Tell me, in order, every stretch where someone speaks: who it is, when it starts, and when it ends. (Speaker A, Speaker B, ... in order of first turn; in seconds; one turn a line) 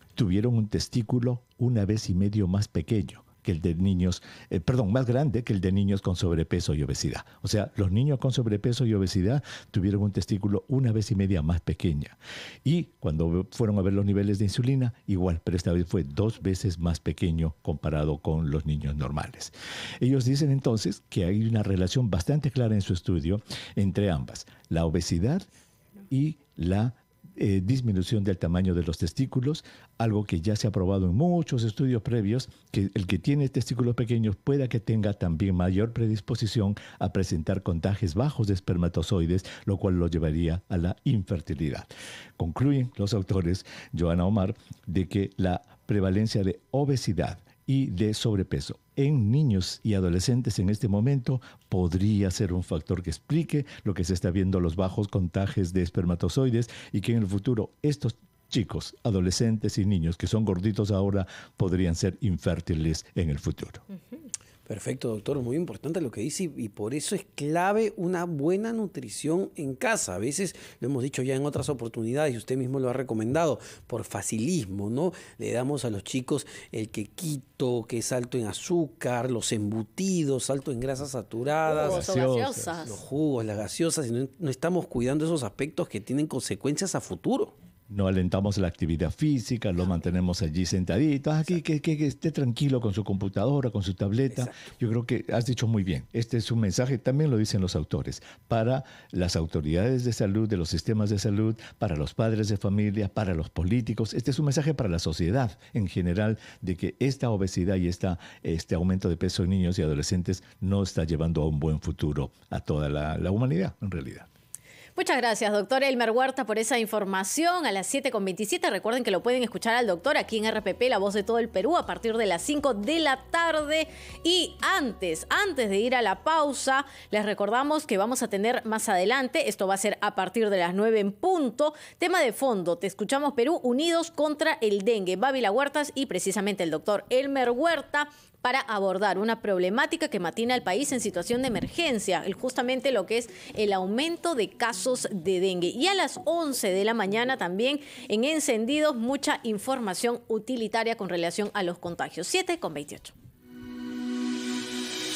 Speaker A: 0.1-25.4
Speaker A: 26.1-63.8
Speaker B: 64.7-82.0
Speaker C: 81.6-83.0
Speaker A: 81.7-82.8
Speaker B: 82.8-87.5
Speaker A: 87.9-114.3
Speaker C: 115.0-153.1